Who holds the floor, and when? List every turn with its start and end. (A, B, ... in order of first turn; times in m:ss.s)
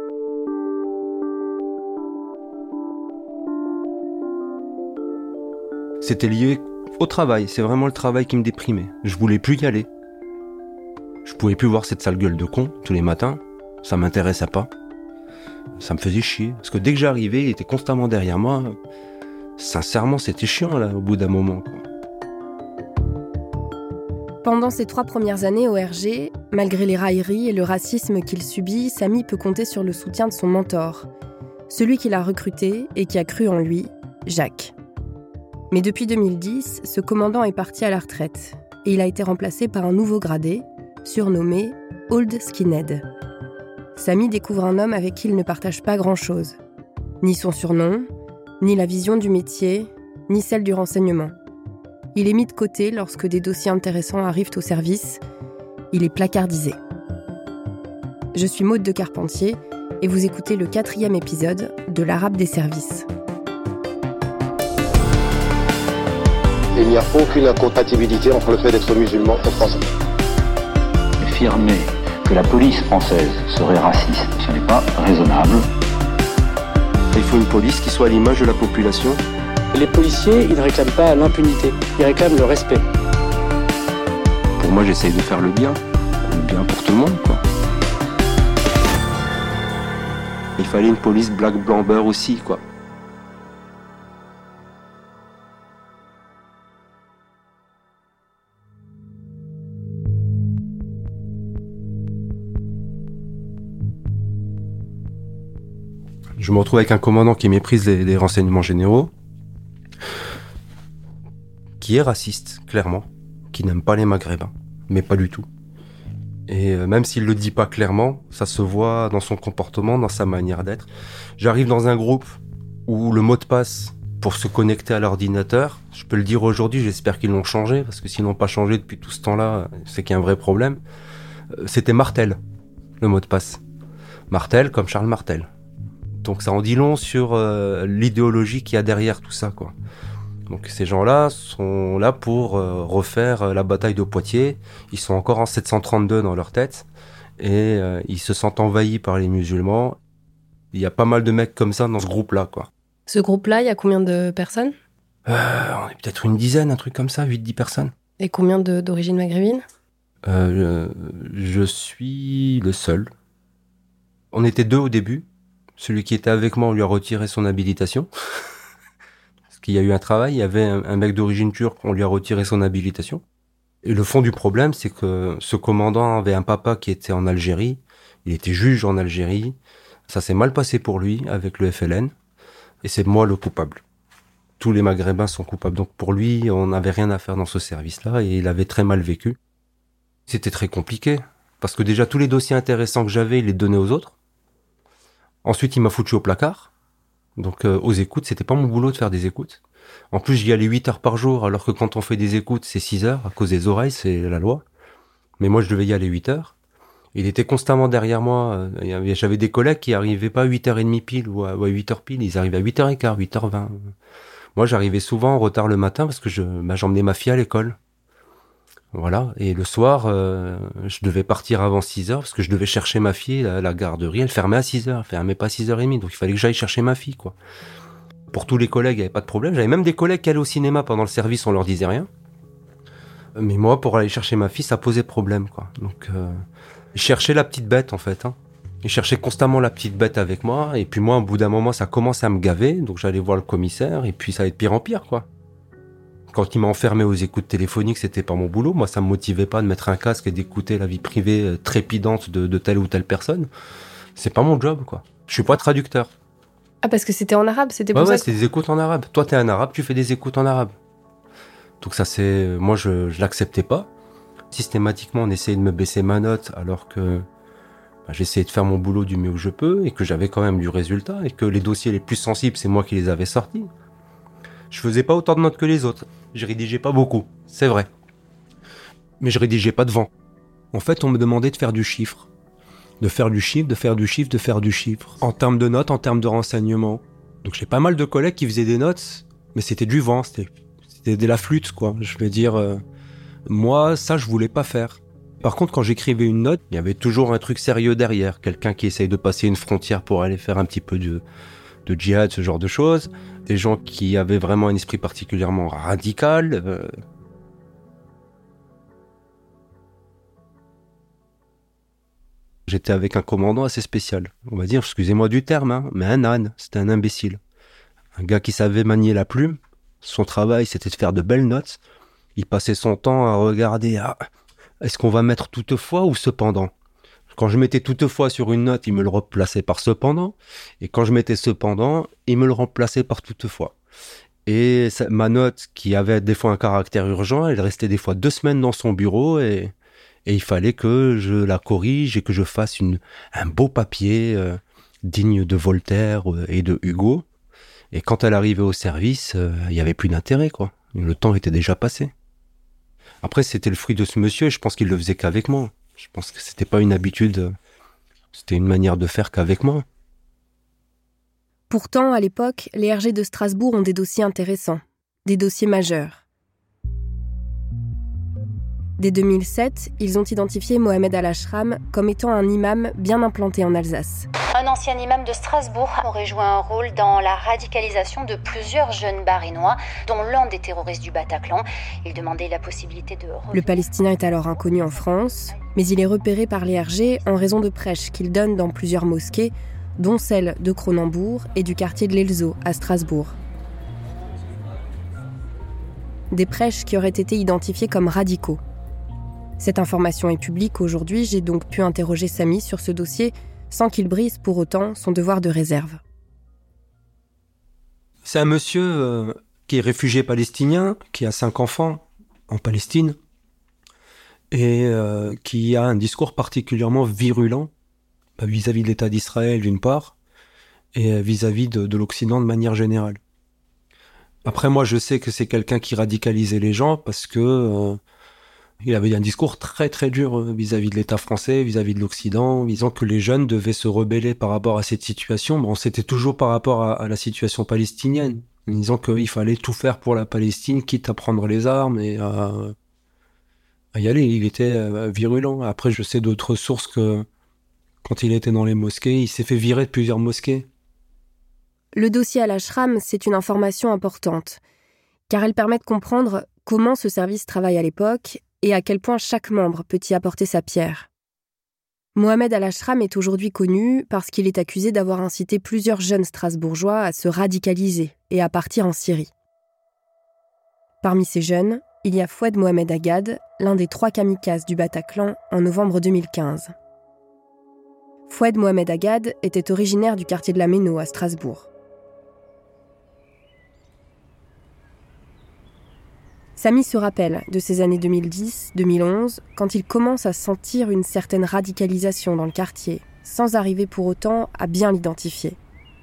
0:06.0-0:09.9 A
0:11.2-0:14.7 A
0:15.8-0:18.8 A
0:19.6-0:21.9 A
0:24.4-0:31.1 B
0:31.7-0:34.8 B
0:35.7-0:43.0 B
0:44.0-0:46.6 B
0:47.2-0:48.1 B
0:48.6-0:51.3 B
0:52.1-0:55.2 B
0:55.9-0:56.8 B
0:58.3-1:03.1 B
1:06.8-1:09.8 C
1:11.2-1:15.7 D
1:17.1-1:19.2 A
1:19.7-1:22.8 E
1:24.6-1:27.4 A
1:30.6-1:32.6 A
1:46.4-1:49.1 A
1:51.8-1:55.5 A
1:56.5-2:10.8 A
2:11.6-2:12.4 A
2:13.0-2:13.6 A
2:14.3-2:15.5 A
2:16.2-2:19.8 A
2:20.5-2:26.9 A
2:27.4-2:30.0 A
2:30.7-2:32.7 A
2:33.1-2:34.7 B
2:35.3-2:37.9 A
2:38.2-2:39.6 B
2:40.3-2:43.1 A
2:44.3-2:45.3 A
2:45.8-2:48.1 A
2:49.5-2:53.2 A
2:53.8-2:59.6 A
3:00.1-3:02.1 A
3:02.8-3:03.8 A
3:04.6-3:09.4 A
3:10.3-3:14.2 A
3:15.4-3:16.7 A
3:17.4-3:19.6 A
3:20.1-3:24.6 A
3:25.4-3:26.5 A
3:27.2-3:33.7 A
3:34.6-3:37.8 A
3:38.9-3:47.4 A
3:48.3-3:52.1 A
3:53.4-3:56.4 A
3:57.0-4:05.3 A
4:06.3-4:13.5 A
4:14.2-4:16.1 A
4:16.8-4:18.3 B
4:17.9-4:20.7 A
4:21.8-4:23.9 A
4:24.5-4:27.2 A
4:28.1-4:33.7 A
4:34.7-4:37.9 A
4:39.2-4:40.1 A
4:40.7-4:42.3 A
4:43.0-4:52.8 A
4:53.5-5:01.2 A
5:01.9-5:06.9 A
5:12.7-5:17.4 A
5:18.2-5:21.8 A
5:22.4-5:24.2 A
5:24.8-5:26.7 A
5:27.3-5:33.8 A
5:34.5-5:39.7 A
5:40.3-5:47.2 A
5:47.9-5:52.1 A
5:53.2-5:57.5 A
5:58.3-5:59.8 A
6:01.7-6:06.2 B
6:09.0-6:14.3 B
6:14.5-6:23.7 F
6:23.5-6:33.4 B
6:36.3-6:38.6 B
6:39.6-6:46.0 B
6:48.2-6:53.2 A
6:54.5-6:57.7 A
6:58.4-7:00.2 A
7:00.9-7:03.2 A
7:04.4-7:08.0 A
7:08.8-7:22.7 A
7:24.0-7:27.3 A
7:28.0-7:30.7 A
7:31.9-7:34.6 B
7:35.3-7:41.1 B
7:42.2-7:49.3 B
7:51.0-7:56.7 B
7:58.3-8:01.7 B
8:06.6-8:15.6 B